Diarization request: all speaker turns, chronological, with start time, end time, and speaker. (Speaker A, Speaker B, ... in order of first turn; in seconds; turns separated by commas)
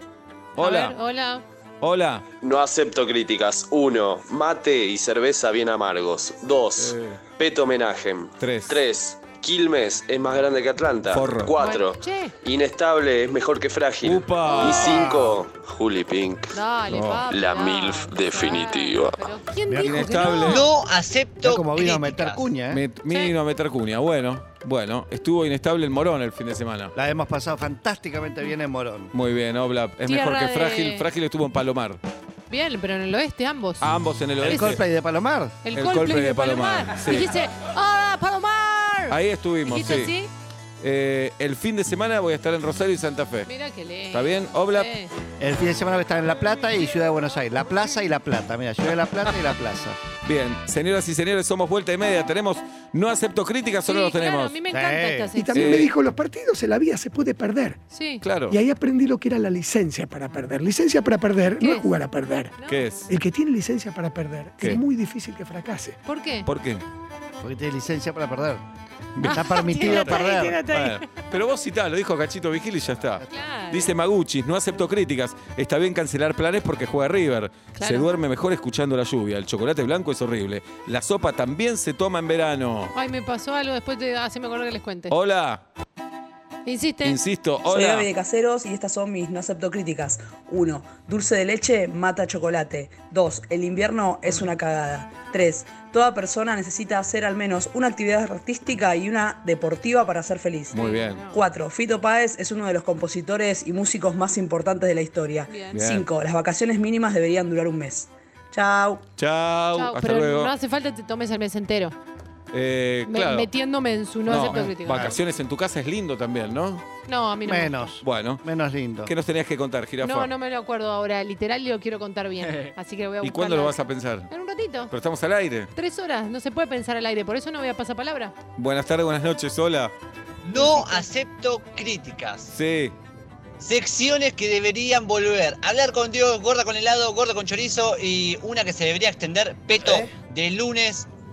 Speaker A: 0.6-0.9, Speaker B: 0.6-1.4, Speaker A: 1.8-2.2, Speaker C: 2.4-16.5, Speaker A: 6.8-7.2, Speaker A: 8.4-8.8, Speaker A: 11.1-11.6, Speaker B: 11.6-12.3, Speaker A: 14.0-15.1, Speaker B: 14.5-14.8, Speaker D: 14.7-15.4, Speaker B: 16.5-20.6, Speaker A: 16.9-17.2, Speaker C: 17.3-19.3, Speaker D: 19.7-20.0, Speaker A: 19.8-20.7, Speaker E: 20.4-22.5, Speaker D: 21.4-22.8, Speaker A: 22.7-26.9, Speaker D: 26.9-29.1, Speaker A: 29.1-32.0, Speaker B: 30.1-31.0, Speaker B: 32.5-33.9, Speaker A: 33.8-34.8, Speaker D: 34.4-35.6, Speaker B: 34.4-34.8, Speaker B: 35.6-40.3, Speaker A: 35.7-37.3, Speaker A: 39.1-40.1, Speaker A: 40.8-43.5, Speaker B: 43.5-45.1, Speaker A: 44.1-44.9, Speaker D: 45.4-50.0, Speaker A: 50.2-54.5, Speaker B: 53.9-55.8, Speaker D: 54.7-55.5, Speaker F: 55.4-57.8, Speaker A: 55.5-55.9, Speaker B: 57.9-58.2, Speaker A: 58.2-58.6, Speaker F: 58.5-62.5, Speaker B: 61.6-62.0, Speaker B: 62.6-62.8, Speaker A: 62.6-63.1, Speaker F: 63.1-66.0, Speaker B: 66.0-66.5, Speaker A: 66.5-66.8, Speaker D: 67.4-68.6, Speaker A: 69.2-82.9, Speaker D: 69.2-70.6, Speaker B: 69.2-71.1, Speaker B: 73.2-73.9, Speaker B: 77.8-78.1, Speaker B: 82.9-85.1, Speaker A: 85.1-85.6, Speaker B: 86.7-87.2, Speaker A: 87.0-88.1, Speaker G: 87.7-100.7, Speaker A: 100.7-101.3, Speaker B: 100.7-101.4, Speaker G: 101.3-109.0, Speaker B: 105.5-105.8, Speaker A: 105.7-106.1, Speaker A: 109.2-110.5, Speaker B: 109.8-111.9, Speaker A: 112.5-113.5, Speaker B: 113.1-115.2, Speaker A: 114.3-116.8, Speaker D: 114.8-115.2, Speaker B: 117.1-117.9, Speaker D: 117.4-119.1, Speaker A: 118.0-118.4, Speaker A: 119.0-120.3, Speaker B: 120.0-123.8, Speaker A: 123.2-124.3, Speaker B: 124.3-124.9, Speaker A: 124.9-125.7, Speaker B: 125.7-128.3, Speaker A: 128.6-129.9, Speaker E: 130.4-132.5, Speaker A: 132.5-132.9, Speaker E: 133.6-141.1, Speaker D: 139.8-140.1